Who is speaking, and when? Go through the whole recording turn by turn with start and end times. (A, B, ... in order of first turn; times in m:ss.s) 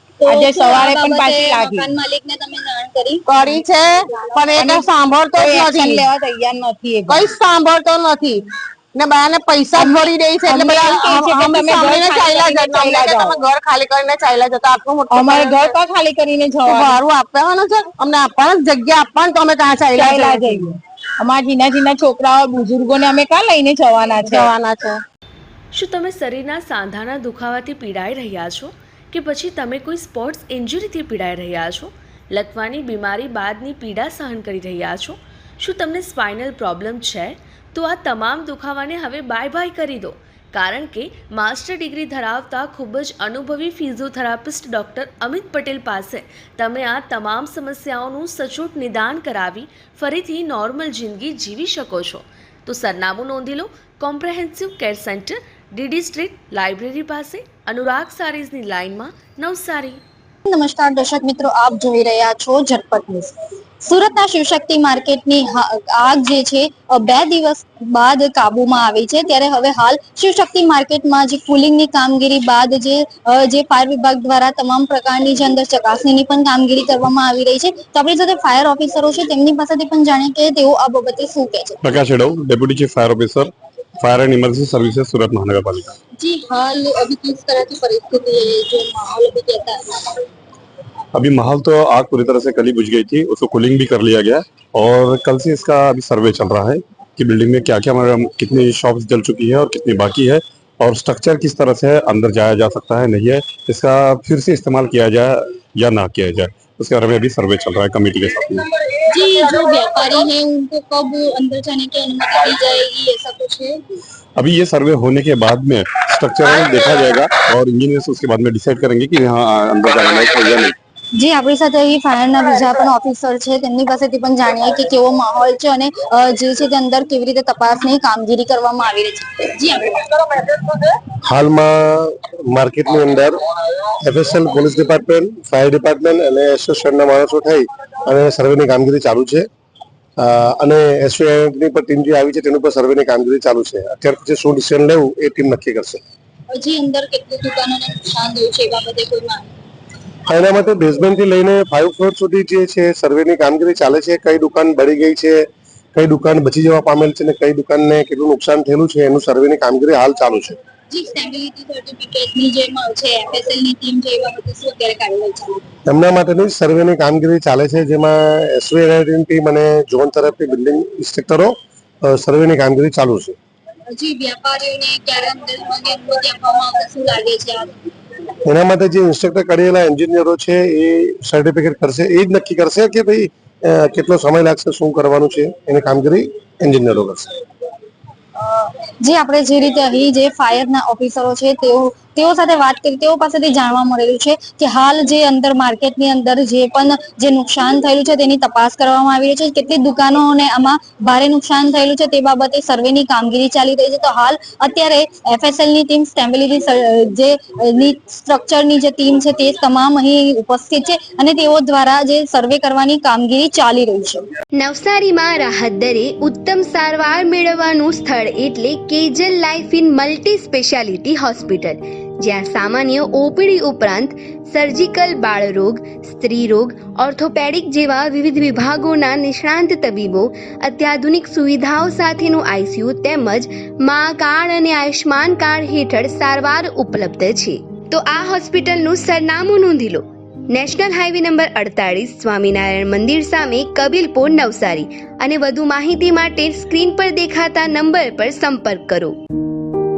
0:00.2-0:03.2 A
0:00.3-0:01.8 B
0:03.3-0:06.1 C
0:05.4-0:07.2 B
0:07.1-0:08.4 C
0:09.0-0:15.7 C
0:09.8-0:13.3 B
0:15.1-0:16.9 B
0:16.6-0:20.7 C
0:20.0-0:20.6 B
0:21.2-0:24.5 B
0:24.2-0:25.0 C
0:25.7-1:00.0 D
1:00.4-1:03.3 A
1:03.8-1:21.8 A
1:21.8-1:25.9 E
1:26.2-1:29.8 A
1:31.1-1:48.6 E
1:49.1-1:53.7 A
1:54.4-2:00.7 E
2:01.2-2:10.0 A
2:11.2-2:13.4 F
2:14.0-2:19.5 F
2:20.2-2:26.0 F
2:26.5-2:29.5 A
2:30.3-2:40.6 F
2:40.9-2:45.6 A
2:45.9-2:53.4 F
2:53.9-2:57.7 A
2:58.4-3:07.3 F
3:08.4-3:34.2 A
3:34.6-4:09.1 G